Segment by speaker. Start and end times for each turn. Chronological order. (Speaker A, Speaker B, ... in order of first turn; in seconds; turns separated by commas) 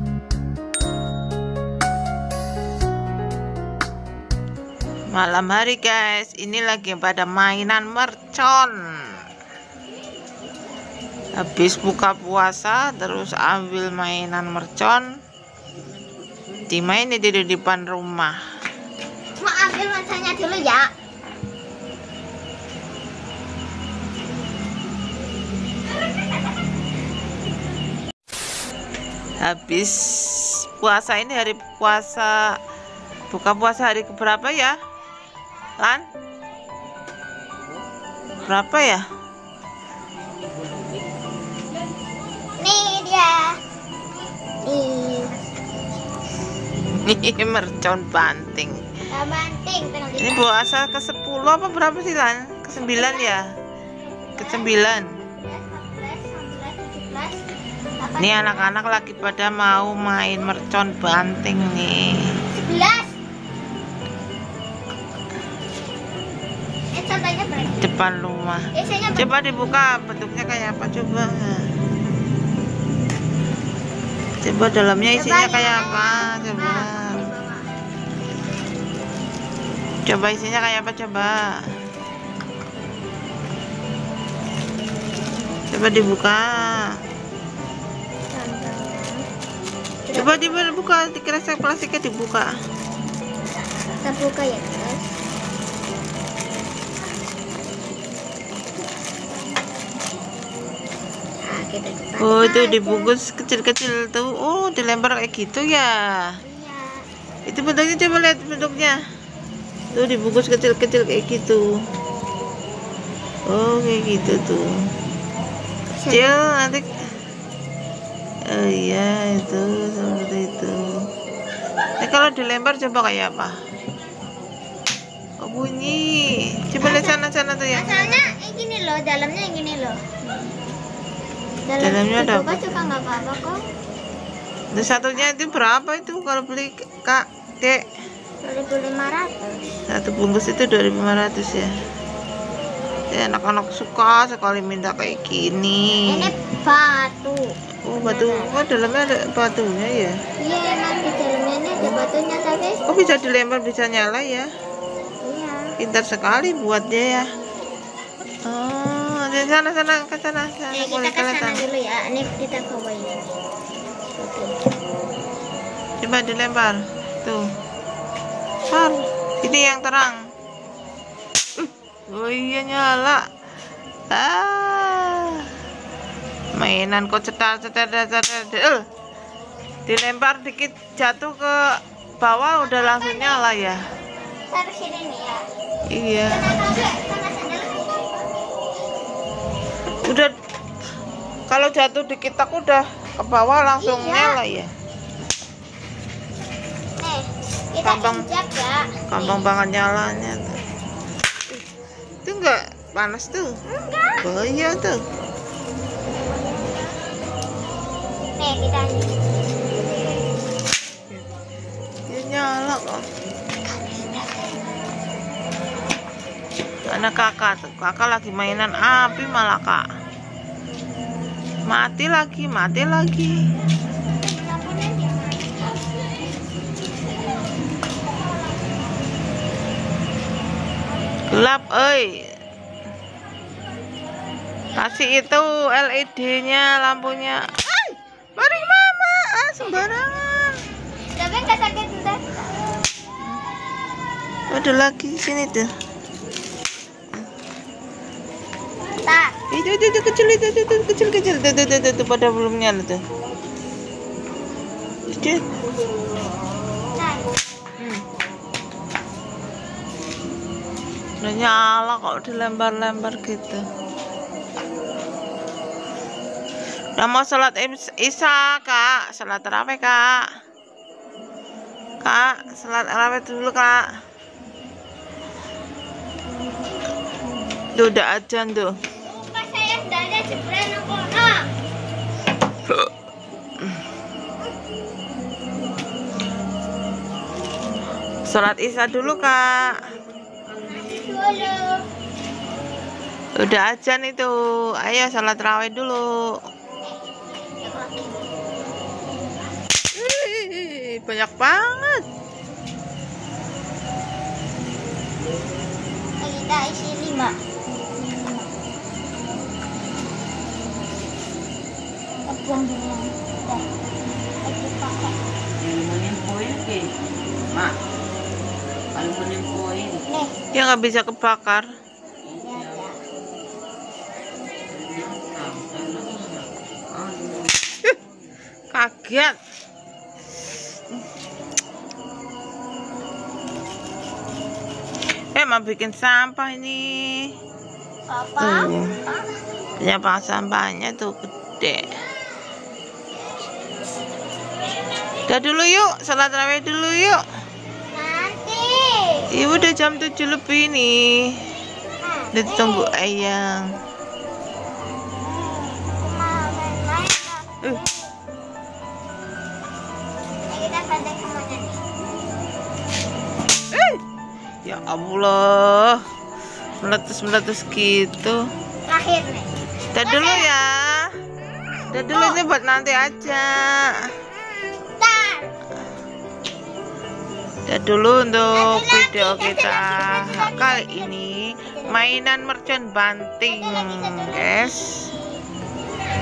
Speaker A: 5.1-9.2, Speaker A: 11.4-15.1, Speaker A: 16.7-18.4, Speaker B: 19.4-20.9, Speaker A: 29.4-32.6, Speaker A: 33.3-34.8, Speaker A: 35.8-36.1, Speaker A: 38.4-39.1, Speaker B: 42.6-43.6, Speaker B: 44.6-45.4, Speaker A: 46.9-48.8, Speaker B: 49.1-50.5, Speaker A: 50.2-53.5, Speaker B: 52.8-53.4, Speaker B: 54.0-58.7, Speaker A: 54.4-55.1, Speaker A: 58.2-62.5, Speaker B: 62.5-63.2, Speaker B: 66.9-68.0, Speaker A: 67.8-71.7, Speaker B: 68.7-69.7, Speaker A: 74.4-77.3, Speaker B: 75.1-77.7, Speaker A: 80.1-81.6, Speaker A: 85.7-86.9, Speaker B: 88.3-89.3, Speaker B: 90.1-90.7, Speaker A: 90.1-92.5, Speaker B: 94.0-95.1, Speaker B: 101.5-103.1, Speaker A: 102.2-106.4, Speaker B: 106.4-107.1, Speaker A: 107.5-109.0, Speaker A: 109.9-111.7, Speaker A: 113.5-114.8, Speaker B: 116.0-116.4, Speaker A: 116.1-116.9, Speaker A: 118.5-121.1, Speaker A: 122.0-123.6, Speaker A: 125.4-128.3, Speaker B: 126.8-130.6, Speaker B: 131.7-133.6, Speaker A: 131.8-132.9, Speaker A: 134.7-137.8, Speaker B: 134.8-135.3, Speaker B: 138.4-139.7, Speaker A: 139.9-141.7, Speaker A: 143.1-146.3, Speaker B: 146.1-148.5, Speaker A: 147.9-150.2, Speaker B: 150.4-152.9, Speaker A: 152.9-154.5, Speaker B: 155.2-155.8, Speaker A: 155.8-157.2, Speaker A: 158.5-161.7, Speaker B: 160.7-163.3, Speaker B: 164.2-164.6, Speaker A: 166.0-167.4, Speaker A: 168.7-170.2, Speaker A: 172.1-173.2, Speaker A: 174.1-175.5, Speaker A: 176.6-178.8, Speaker A: 179.9-183.9, Speaker B: 182.6-183.6, Speaker B: 184.5-185.5, Speaker A: 185.9-186.5, Speaker B: 186.2-188.2, Speaker A: 190.1-190.3, Speaker A: 191.5-194.7, Speaker B: 193.8-194.4, Speaker B: 197.0-199.5, Speaker A: 197.8-198.3, Speaker A: 199.1-200.6, Speaker A: 202.3-203.6, Speaker A: 204.2-205.0, Speaker B: 206.4-206.8, Speaker B: 208.4-210.3, Speaker A: 212.1-213.1, Speaker A: 216.9-219.8, Speaker A: 221.7-223.4, Speaker B: 224.2-225.8, Speaker A: 231.3-232.3, Speaker A: 234.7-240.6, Speaker B: 241.1-242.4, Speaker A: 244.5-245.7, Speaker B: 249.0-249.3, Speaker A: 249.5-253.0, Speaker A: 255.1-255.5, Speaker B: 256.9-257.3, Speaker A: 257.8-258.0, Speaker A: 261.2-263.6, Speaker A: 267.0-270.2, Speaker A: 272.0-273.9, Speaker A: 277.7-278.8, Speaker B: 279.1-281.5, Speaker A: 288.3-289.8, Speaker B: 290.6-291.8, Speaker A: 293.4-296.3, Speaker B: 297.4-298.3, Speaker A: 299.9-302.0, Speaker B: 306.2-307.4, Speaker B: 308.0-308.5, Speaker B: 312.3-313.7, Speaker B: 314.4-315.2, Speaker C: 315.6-317.0, Speaker C: 319.0-320.0, Speaker B: 320.0-320.3, Speaker A: 320.5-321.7, Speaker B: 322.3-323.0, Speaker C: 324.7-327.6, Speaker A: 328.7-329.4, Speaker A: 335.3-337.3, Speaker B: 338.1-339.4, Speaker A: 338.4-339.0, Speaker A: 339.8-341.9, Speaker A: 345.3-347.2, Speaker B: 347.9-349.5, Speaker A: 349.3-351.4, Speaker B: 352.0-353.0, Speaker A: 352.3-353.7, Speaker B: 355.2-358.1, Speaker B: 360.5-361.8, Speaker A: 363.7-364.0, Speaker A: 364.7-366.0, Speaker A: 366.8-368.4, Speaker B: 368.9-370.5, Speaker A: 369.9-371.1, Speaker A: 371.9-374.1, Speaker B: 372.1-372.4, Speaker B: 375.0-375.5, Speaker A: 377.7-385.1, Speaker B: 378.5-382.0, Speaker B: 383.5-385.4